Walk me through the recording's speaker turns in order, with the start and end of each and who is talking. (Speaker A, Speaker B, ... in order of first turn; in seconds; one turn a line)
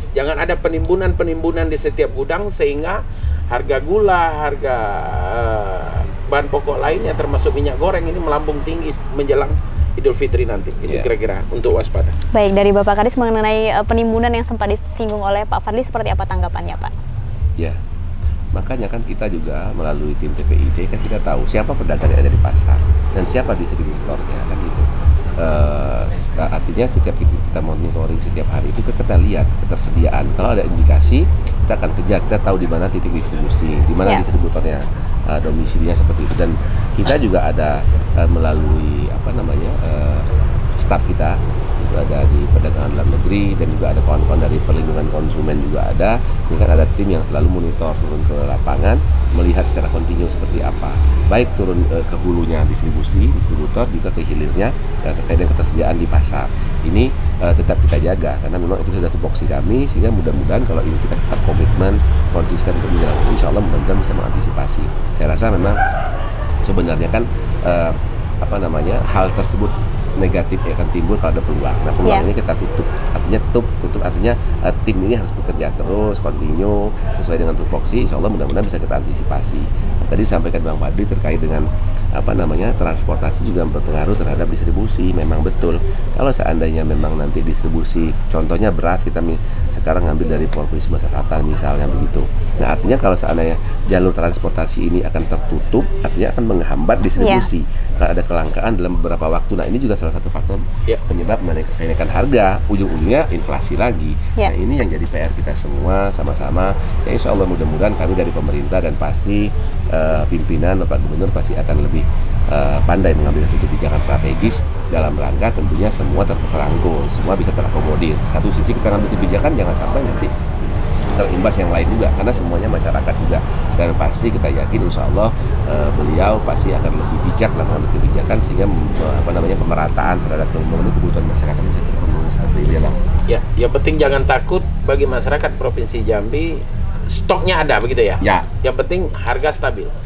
Speaker A: 0.1-12.2
Speaker B: 12.3-16.9
Speaker C: 18.5-24.8
Speaker C: 25.4-40.3
Speaker C: 40.8-65.8
Speaker C: 66.6-120.3
Speaker B: 97.2-97.5
Speaker C: 121.1-133.0
Speaker A: 133.3-139.9
Speaker C: 138.2-138.5